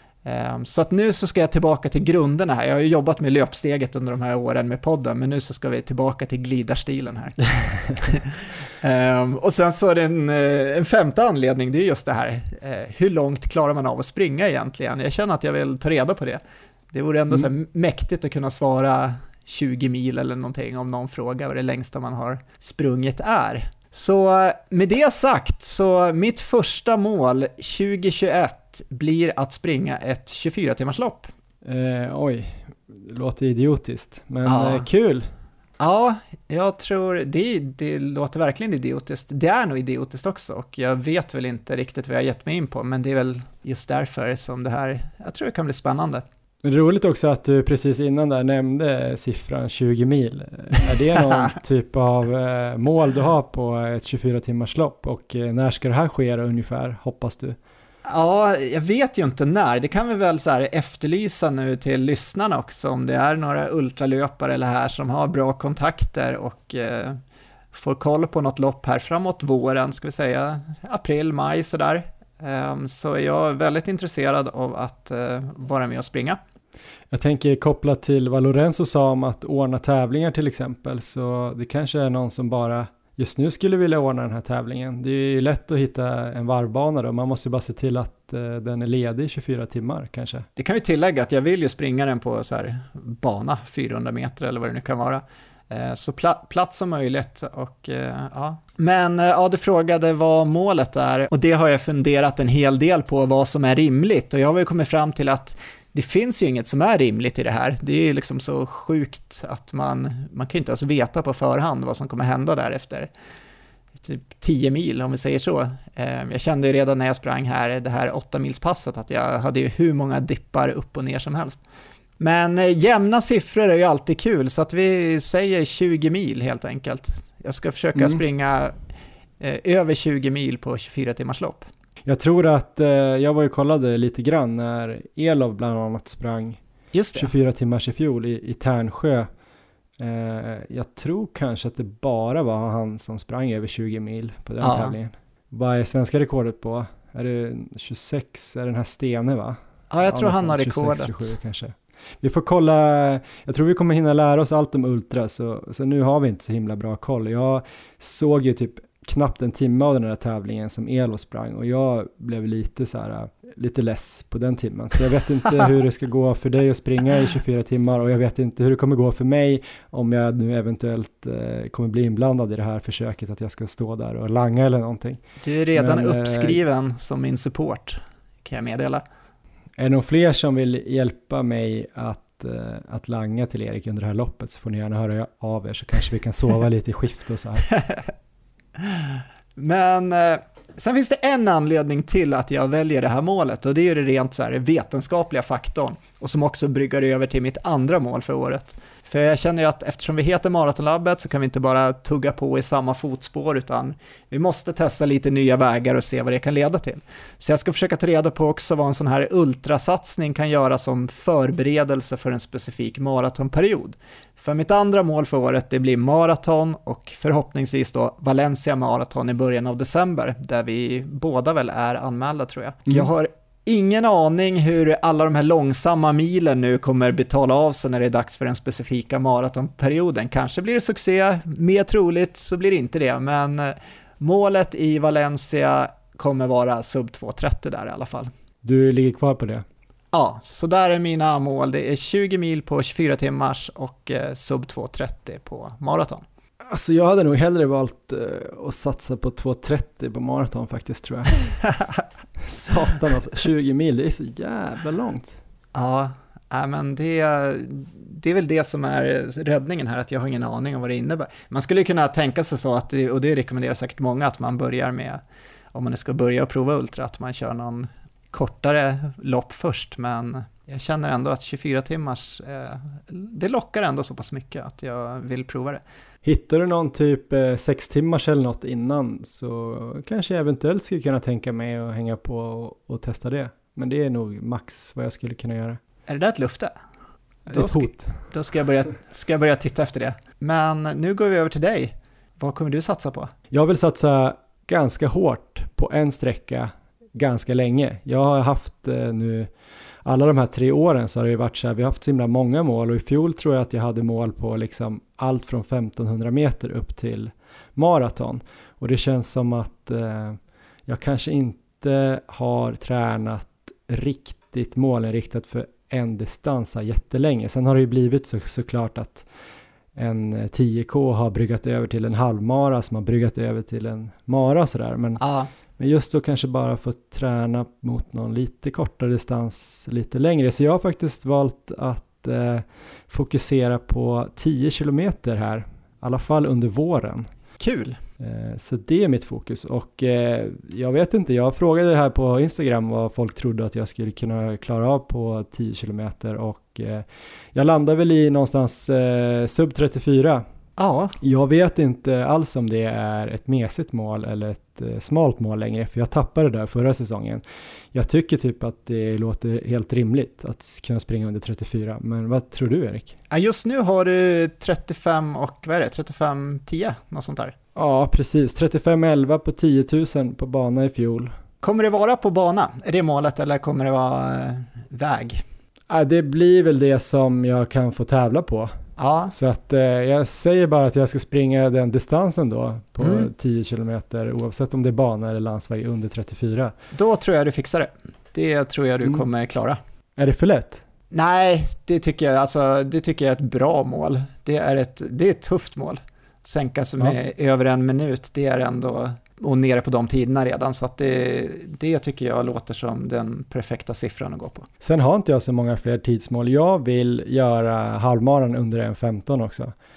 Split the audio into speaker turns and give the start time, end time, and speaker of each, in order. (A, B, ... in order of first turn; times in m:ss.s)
0:00.2-0:31.3 A
0:31.6-0:35.3 B
0:34.4-0:34.9 A
0:35.8-0:46.2 A
0:46.6-0:57.6 B
0:58.0-1:07.2 A
1:07.7-1:16.4 A
1:17.1-1:30.4 B
1:30.6-1:53.1 A
1:54.0-2:01.6 A
2:02.2-2:08.8 A
2:09.4-2:11.7 A
2:12.0-2:16.6 B
2:16.9-2:17.3 A
2:17.1-2:19.3 B
2:20.0-2:55.2 B
2:24.6-2:24.9 A
2:29.9-2:31.3 A
2:55.4-2:59.0 A
2:55.7-2:56.6 B
2:59.8-3:07.7 B
3:08.8-3:58.3 A
3:58.6-3:59.6 B
4:00.1-4:06.2 A
4:06.7-4:11.5 B
4:12.4-4:15.4 B
4:15.7-4:25.2 A
4:25.7-4:35.8 A
4:36.2-4:45.8 B
4:46.1-4:46.7 A
4:47.5-4:48.2 B
4:47.5-4:53.3 A
4:53.5-4:59.5 B
5:00.0-5:19.3 B
5:20.0-5:25.2 B
5:25.2-5:25.5 A
5:25.8-5:37.3 B
5:37.6-5:38.0 A
5:38.2-5:50.4 B
5:50.8-5:51.2 A
5:51.2-6:03.1 B
6:03.3-6:07.5 A
6:07.8-6:11.4 B
6:11.6-6:15.4 A
6:15.9-6:18.7 B
6:19.0-6:19.3 A
6:19.3-6:26.7 B
6:23.0-6:23.3 A
6:26.9-6:29.8 A
6:30.2-6:30.8 B
6:31.1-6:44.7 A
6:44.8-6:49.7 B